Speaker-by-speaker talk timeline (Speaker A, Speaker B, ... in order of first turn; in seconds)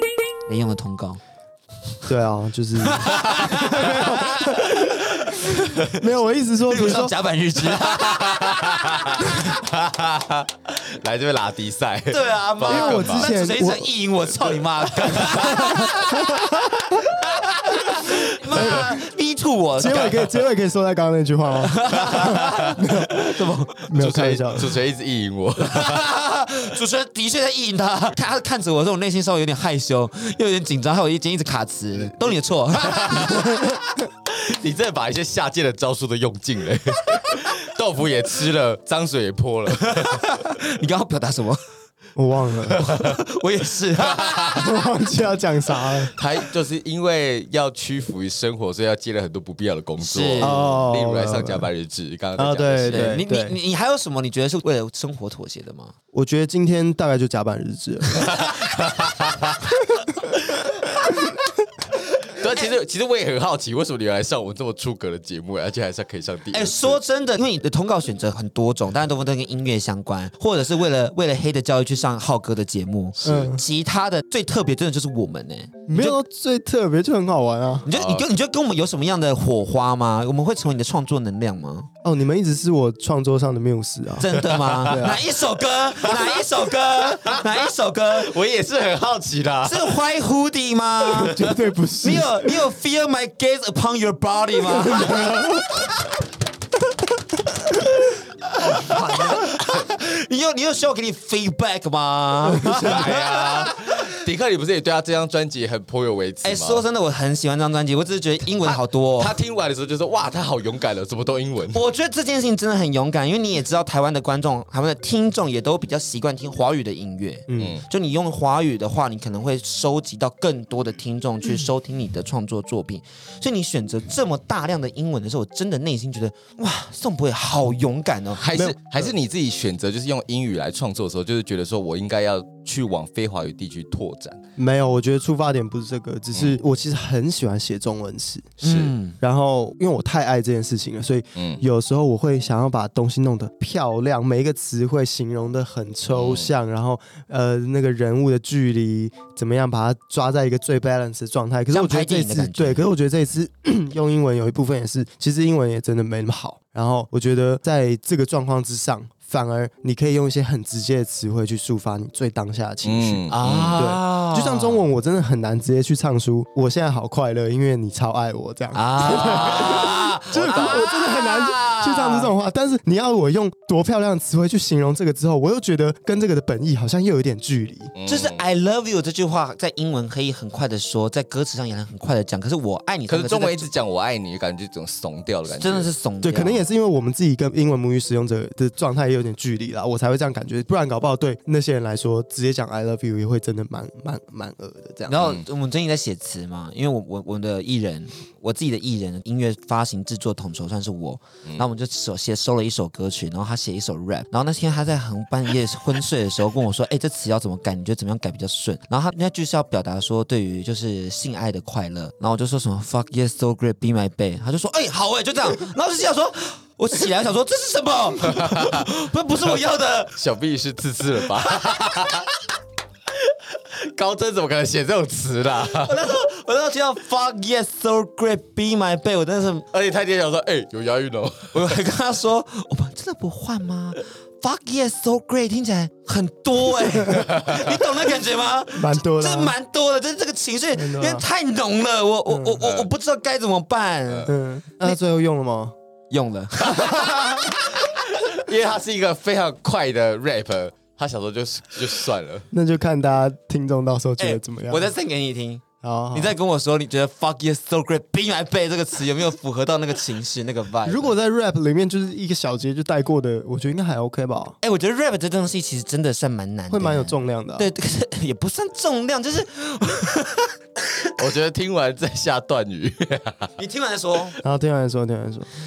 Speaker A: 0.5-1.2, 2.8-6.0, 6.7-9.6, 12.1-20.3, 21.6-23.9, 25.6-33.7, 39.8-41.6, 42.7-44.8, 50.0-50.6, 52.9-55.9, 66.5-76.2, 77.8-81.9, 84.2-88.3, 89.6-91.4, 92.0-95.8, 98.6-104.0, 106.4-109.3, 111.7-128.4, 138.6-139.2, 151.7-152.8, 163.3-164.8, 168.7-172.3, 178.1-183.7, 185.5-186.7, 195.1-220.2, 221.4-222.2, 225.7-229.7, 231.5-244.9, 246.1-247.8, 254.2-261.1, 264.6-271.0, 273.6-274.4
Speaker B: 2.0-7.1, 12.7-14.0, 15.1-16.6, 18.5-19.1, 19.8-23.3, 23.9-24.8, 42.1-42.8, 44.5-46.1, 50.4-51.7, 52.4-53.6, 56.1-58.4, 73.2-73.6, 75.9-77.9, 82.0-85.2, 91.3-92.6, 95.0-95.4, 102.6-103.0, 117.5-117.8, 128.5-129.1, 134.6-138.6, 139.2-177.9, 186.2-195.2, 236.9-237.3, 238.7-239.6, 240.7-241.2, 242.3-242.6, 244.2-245.7, 252.5-254.9, 255.8-256.4, 260.8-264.6, 266.7-267.7, 274.4-275.5
Speaker C: 7.7-13.3, 15.0-15.5, 22.1-22.7, 23.9-26.1, 32.8-33.6, 34.2-40.3, 42.8-43.2, 44.0-44.6, 46.2-53.2, 58.1-59.7, 60.4-61.2, 62.2-67.0, 77.9-78.3, 84.5-85.2, 85.9-90.0, 91.3-91.5, 99.2-99.4, 102.6-106.8, 108.6-111.8, 117.6-117.8, 128.4-134.4, 136.3-136.6, 138.6-138.9, 141.3-141.6, 146.1-146.5, 162.8-163.8, 169.1-170.9, 177.9-178.4, 183.1-185.9, 195.2-195.4, 218.3-218.9, 220.1-222.3, 223.2-226.0, 229.7-231.8, 237.3-237.8, 242.6-242.9, 246.7-252.5, 271.2-273.5